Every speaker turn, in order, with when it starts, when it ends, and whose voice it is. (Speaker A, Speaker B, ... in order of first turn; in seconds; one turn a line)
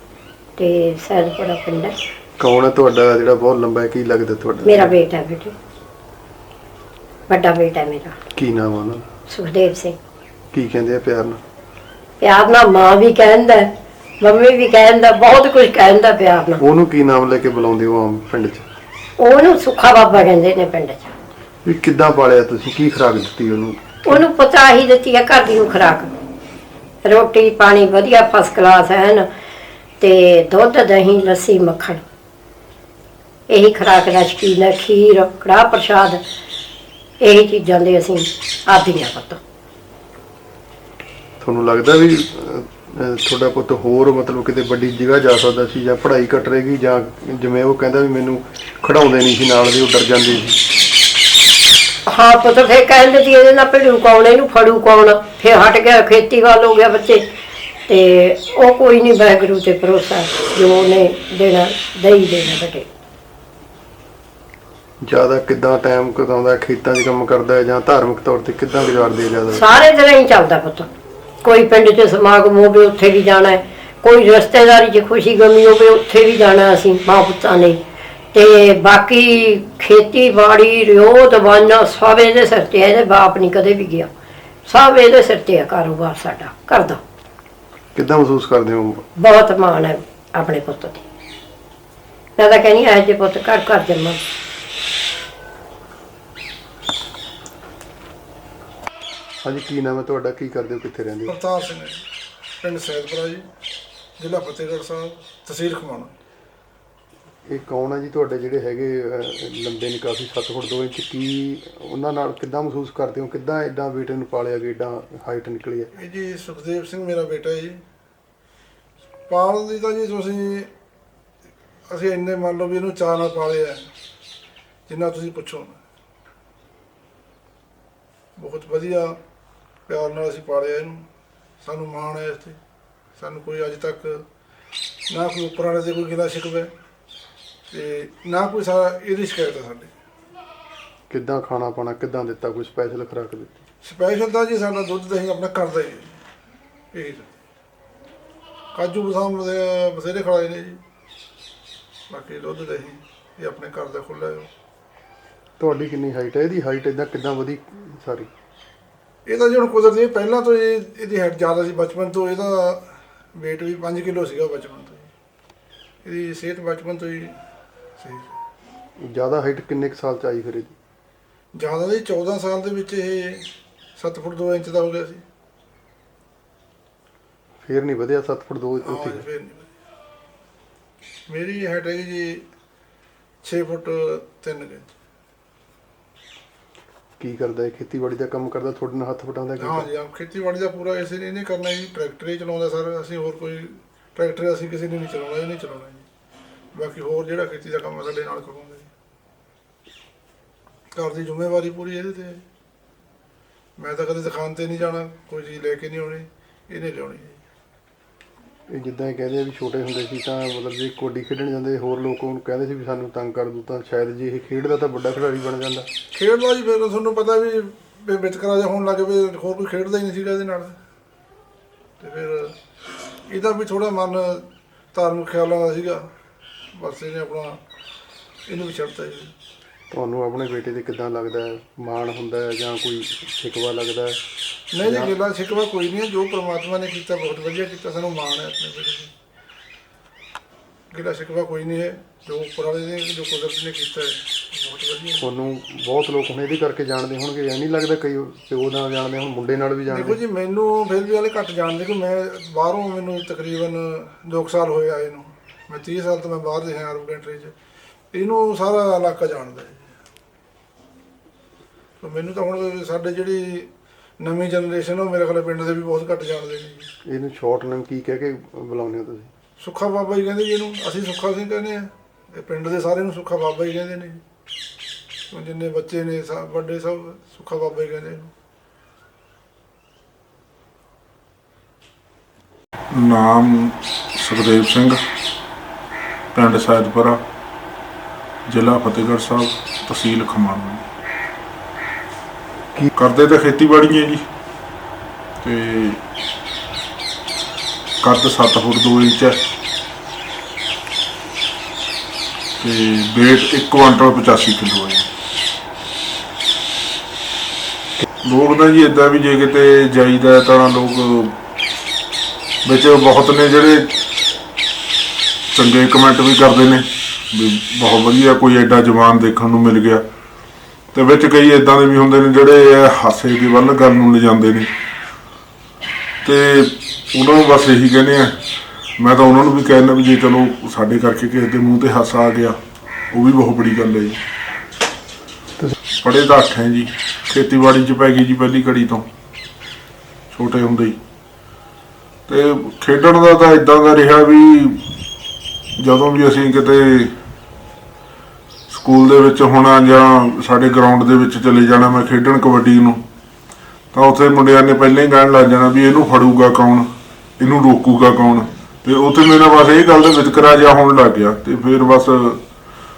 Speaker A: 0.6-1.9
Speaker B: 2.4-5.0
Speaker A: 4.6-5.5
Speaker A: 7.3-8.1
Speaker B: 8.3-9.0
Speaker A: 9.3-10.0
Speaker B: 10.5-11.4
Speaker A: 12.2-13.7
Speaker A: 14.2-16.6
Speaker B: 16.6-18.7
Speaker A: 19.2-21.1
Speaker B: 21.6-24.2
Speaker A: 24.1-26.1
Speaker A: 27.0-29.3
Speaker A: 30.0-32.0
Speaker A: 33.5-36.2
Speaker A: 37.2-39.4
Speaker B: 41.4-50.5
Speaker A: 52.1-57.2
Speaker A: 57.9-62.9
Speaker B: 65.0-69.6
Speaker A: 69.5-70.9
Speaker A: 71.4-77.8
Speaker A: 78.3-84.1
Speaker A: 84.7-87.0
Speaker B: 87.9-89.0
Speaker A: 89.2-91.0
Speaker A: 92.4-94.2
Speaker B: 99.4-101.3
Speaker C: 101.3-102.0
Speaker C: 102.6-103.5
Speaker C: 104.2-106.1
Speaker B: 107.5-115.9
Speaker C: 116.0-117.8
Speaker C: 119.3-120.7
Speaker C: 121.9-123.9
Speaker C: 124.9-125.8
Speaker C: 128.3-129.2
Speaker C: 129.9-131.1
Speaker C: 131.6-132.6
Speaker C: 133.2-134.2
Speaker C: 135.1-136.7
Speaker C: 137.7-139.9
Speaker B: 141.1-143.6
Speaker C: 143.8-146.2
Speaker C: 146.9-147.3
Speaker C: 148.7-150.8
Speaker C: 152.1-154.5
Speaker B: 155.6-158.3
Speaker C: 159.2-165.1
Speaker C: 166.0-167.4
Speaker C: 168.0-168.4
Speaker B: 169.0-170.7
Speaker C: 171.5-175.2
Speaker B: 177.6-179.2
Speaker C: 178.8-179.7
Speaker C: 181.3-182.4
Speaker C: 183.4-184.9
Speaker B: 187.2-189.8
Speaker C: 189.6-196.1
Speaker C: 196.7-198.9
Speaker C: 200.9-202.4
Speaker C: 203.8-207.4
Speaker B: 208.7-215.9
Speaker C: 216.1-220.8
Speaker C: 222.0-222.5
Speaker C: 223.3-226.1
Speaker C: 226.7-227.6
Speaker C: 228.5-229.3
Speaker B: 229.9-234.2
Speaker C: 234.7-239.1
Speaker B: 234.8-235.1
Speaker C: 240.9-245.2
Speaker B: 245.2-250.2
Speaker C: 249.9-257.5
Speaker C: 258.1-259.8
Speaker C: 262.0-266.9
Speaker B: 267.1-269.3
Speaker C: 269.6-274.2
Speaker C: 275.3-278.3
Speaker D: 282.9-285.0
Speaker D: 286.3-287.2
Speaker D: 288.5-290.9
Speaker D: 292.9-294.2
Speaker D: 295.4-296.0
Speaker D: 298.0-299.4
Speaker D: 302.6-305.1
Speaker D: 308.2-311.4
Speaker D: 312.6-313.9
Speaker D: 315.5-320.0
Speaker D: 320.9-324.7
Speaker D: 326.2-328.4
Speaker D: 329.0-332.6
Speaker D: 333.1-334.2
Speaker D: 336.0-339.1
Speaker D: 340.3-341.0
Speaker D: 342.3-344.8
Speaker D: 345.8-347.1
Speaker D: 348.7-353.0
Speaker D: 353.9-362.4